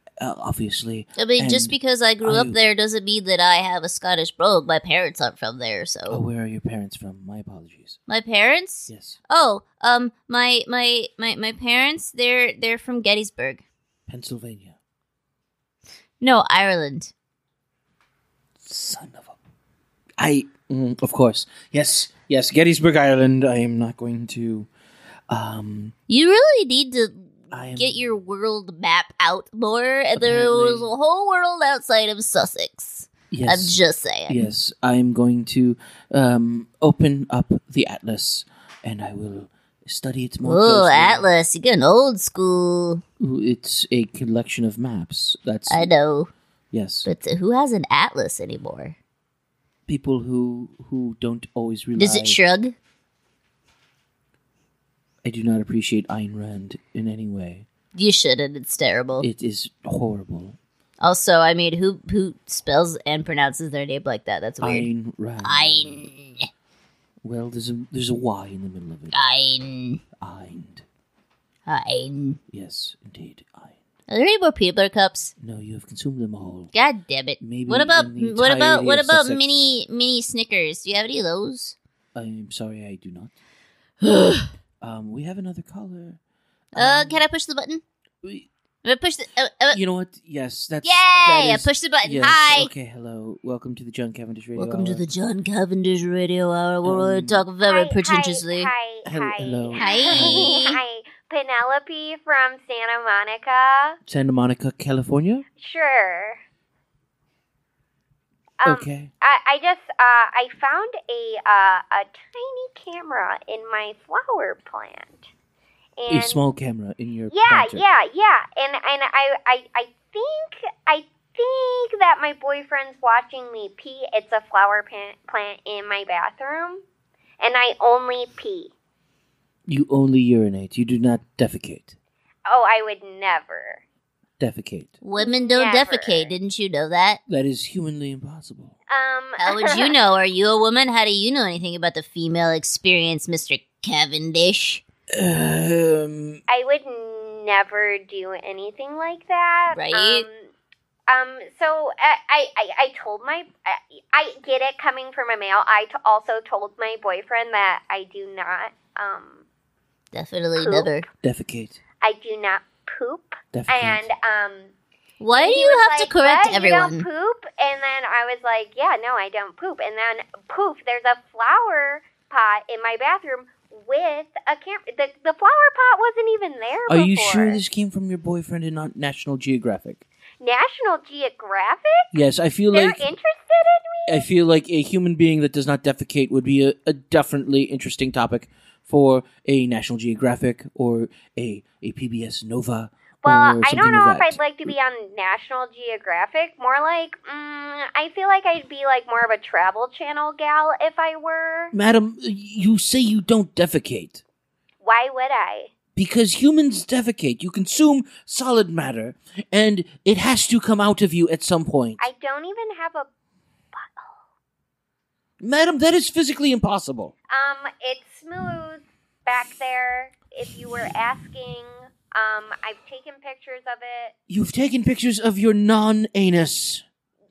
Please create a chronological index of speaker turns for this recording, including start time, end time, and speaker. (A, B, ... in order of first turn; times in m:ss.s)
0:00.2-0:02.6 A
0:01.2-0:06.2 B
0:06.1-0:08.0 A
0:08.1-0:13.6 B
0:08.9-0:09.2 A
0:14.1-0:14.8 A
0:16.2-0:17.1 B
0:18.6-0:19.4 A
0:20.2-0:24.7 A
0:25.3-0:25.9 A
0:26.1-0:34.5 B
0:27.5-0:28.1 A
0:30.2-0:30.9 A
0:33.3-0:41.3 A
0:40.4-0:43.0 B
0:43.2-0:45.9 A
0:45.7-0:46.3 B
0:46.7-0:47.1 A
0:47.0-0:49.0 B
0:49.9-0:52.4 A
0:52.0-0:52.8 B
0:55.2-0:57.7 A
0:58.0-0:59.3 B
0:59.2-1:00.6 A
1:01.0-1:04.9 B
1:04.6-1:06.1 A
1:05.4-1:06.5 B
1:07.2-1:09.2 A
1:09.1-1:10.0 B
1:10.2-1:10.8 A
1:11.7-1:12.4 B
1:12.5-1:13.8 A
1:14.1-1:15.3 B
1:15.4-1:16.7 A
1:16.7-1:21.8 B
1:17.4-1:19.8 A
1:22.1-1:23.3 A
1:24.0-1:24.5 B
1:24.8-1:26.2 A
1:26.7-1:27.2 A
1:26.8-1:27.8 B
1:28.8-1:29.8 B
1:29.7-1:35.0 A
1:30.8-1:32.7 B
1:34.6-1:38.7 B
1:36.8-1:37.5 A
1:37.6-1:44.0 C
1:39.0-1:40.5 A
1:39.8-1:40.8 B
1:44.1-1:45.4 A
1:45.6-1:46.4 C
1:48.6-1:55.3 C
1:48.6-1:49.1 A
1:56.0-1:56.4 C
1:56.1-1:57.8 A
1:57.3-2:06.8 C
2:07.4-2:08.7 C
2:09.7-2:12.0 A
2:12.5-2:13.8 C
2:14.4-2:15.0 A
2:15.0-2:17.2 B
2:15.2-2:16.3 C
2:17.3-2:18.8 A
2:18.9-2:19.9 C
2:19.4-2:24.8 B
2:25.1-2:26.4 A
2:26.5-2:30.5 C
2:29.7-2:30.3 B
2:31.1-2:39.4 C
2:40.1-2:41.1 B
2:40.6-2:40.9 C
2:41.2-2:41.8 A
2:42.0-2:44.7 C
2:43.5-2:44.1 A
2:45.2-2:47.1 B
2:45.4-2:57.6 C
2:56.9-3:00.0 A
3:00.4-3:02.1 C
3:02.1-3:03.1 A
3:02.7-3:04.3 C
3:04.1-3:14.7 A
3:13.2-3:21.7 C
3:21.7-3:24.2 A
3:24.8-3:25.7 C
3:26.0-3:32.0 A
3:32.0-3:33.1 C
3:33.7-3:34.2 C
3:35.4-3:37.1 A
3:37.3-3:44.1 C
3:44.3-3:46.8 A